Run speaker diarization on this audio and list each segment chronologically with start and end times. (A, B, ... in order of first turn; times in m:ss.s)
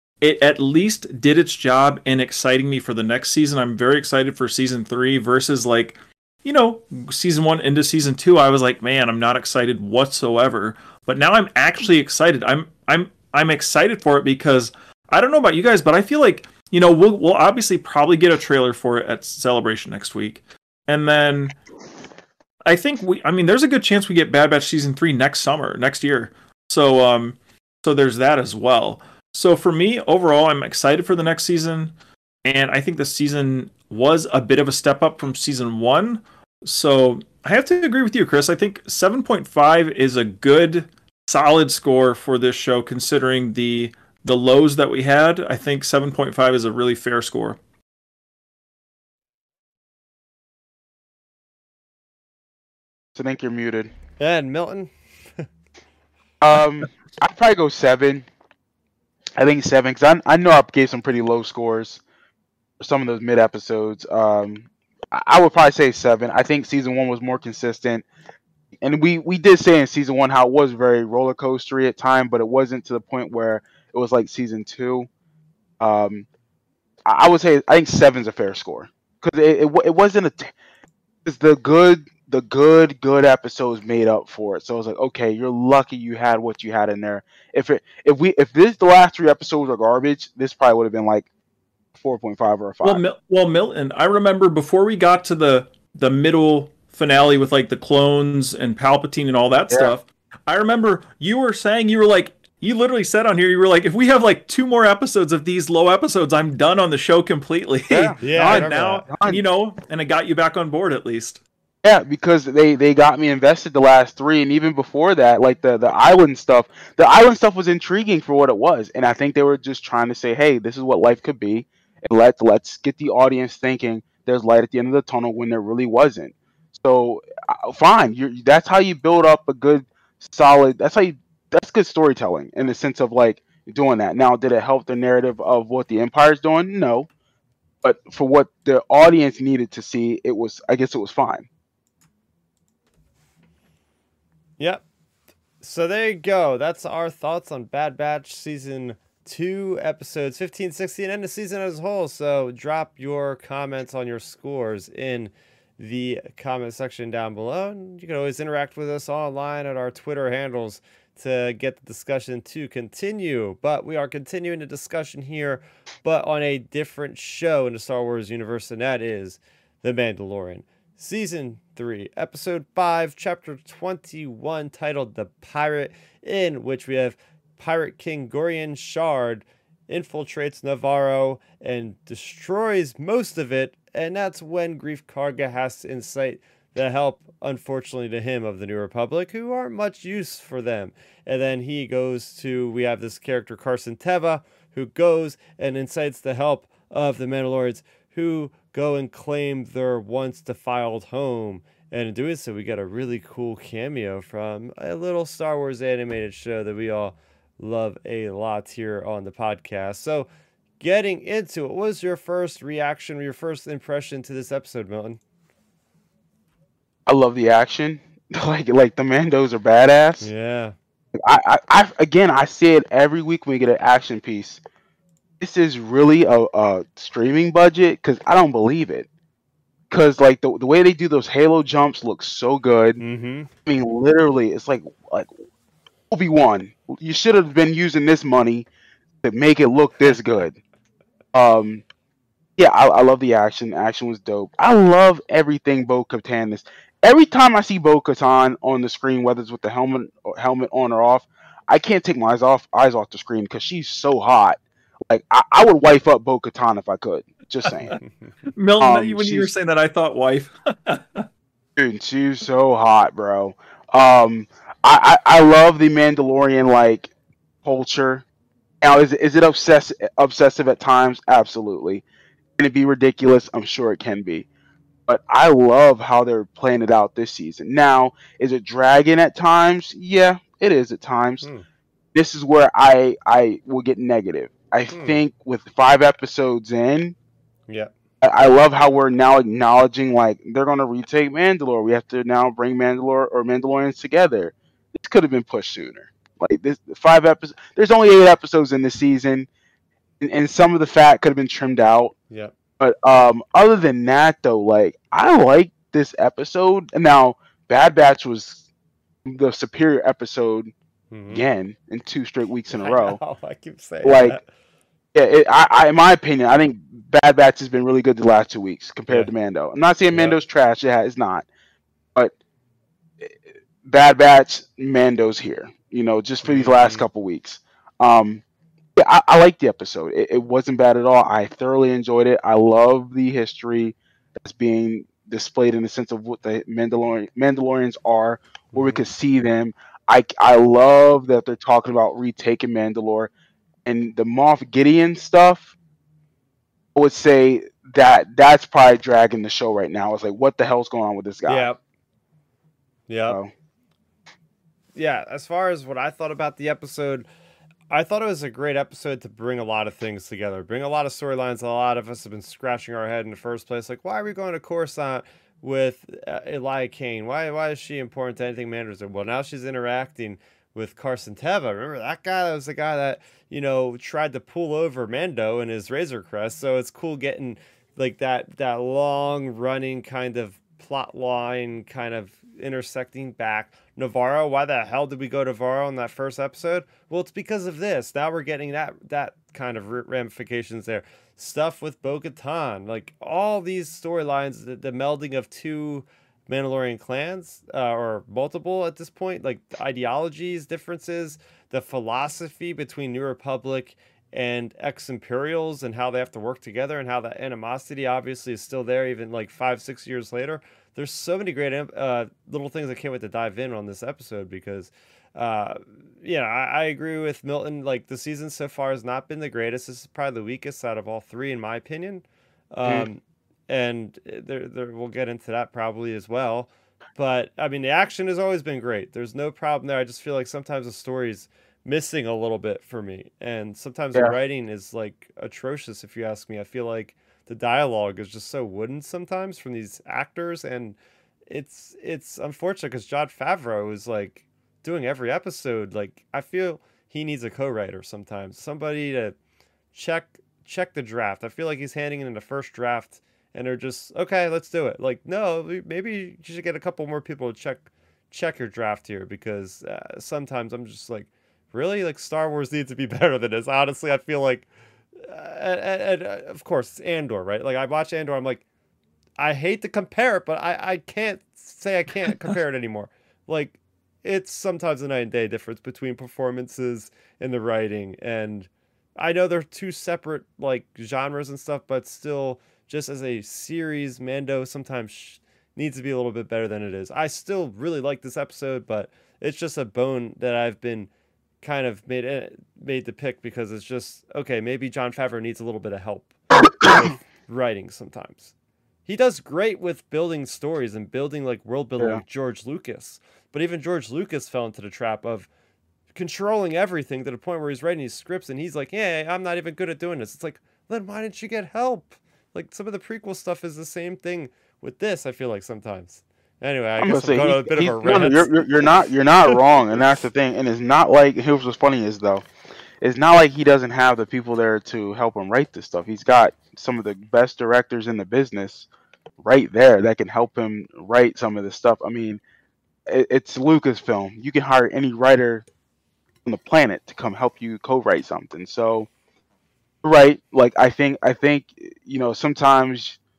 0:00.2-0:21.6 A
0:22.7-0:31.9 A
0:32.4-0:47.6 A
0:53.1-0:53.9 B
0:54.2-0:55.4 C
0:56.4-0:58.3 B
0:59.4-1:02.0 B
1:02.8-1:08.0 B
1:08.8-1:15.1 B
1:15.8-1:16.3 B
1:17.1-1:20.5 B
1:21.2-1:31.3 B
1:32.0-1:33.0 B
1:32.8-1:51.4 A
1:47.9-1:49.4 B
1:48.2-1:49.1 C
1:51.8-2:17.1 B
2:17.8-2:21.5 B
2:25.6-3:30.3 C
3:30.8-3:35.2 C
3:37.1-3:40.3 B
3:40.2-3:40.7 C
3:41.2-3:44.6 B
3:45.4-3:49.1 B
3:49.9-3:53.0 B
3:53.0-3:53.5 C
3:53.7-3:55.3 B
3:56.1-3:58.7 B
3:59.2-4:00.6 B
4:01.3-4:01.8 B
4:02.6-4:18.0 B
4:18.5-4:21.2 A
4:18.8-4:19.5 B
4:21.8-4:27.1 B
4:27.6-4:28.2 B
4:28.8-4:32.0 B
4:32.6-4:34.5 B
4:35.1-4:41.5 B
4:42.1-4:47.2 B
4:44.9-4:45.2 C
4:47.7-4:47.9 C
4:48.2-4:59.5 B
5:00.2-5:02.1 B
5:02.8-5:08.7 B
5:09.2-5:10.7 B
5:11.1-5:11.5 C
5:11.3-5:13.2 B
5:12.7-5:14.4 C
5:14.0-5:14.4 B
5:15.1-5:21.4 B
5:23.8-5:28.4 B
5:26.4-5:27.0 C
5:29.0-5:43.3 B
5:38.7-5:39.0 C
5:43.9-5:45.7 B
5:47.0-5:51.7 B
5:51.5-5:51.8 C
5:53.1-5:53.4 C
5:55.0-5:57.3 C
5:57.9-7:21.0 C
7:21.5-7:29.3 C
7:29.9-7:44.7 C
7:45.2-7:48.6 C
7:49.4-8:11.1 C
8:11.6-8:18.5 C
8:19.0-8:25.5 C
8:26.1-8:38.8 C
8:37.0-8:42.5 B
8:43.0-8:48.9 B
8:49.4-8:52.4 B
8:53.1-8:55.6 B
8:56.4-8:59.1 B
9:00.0-9:03.2 B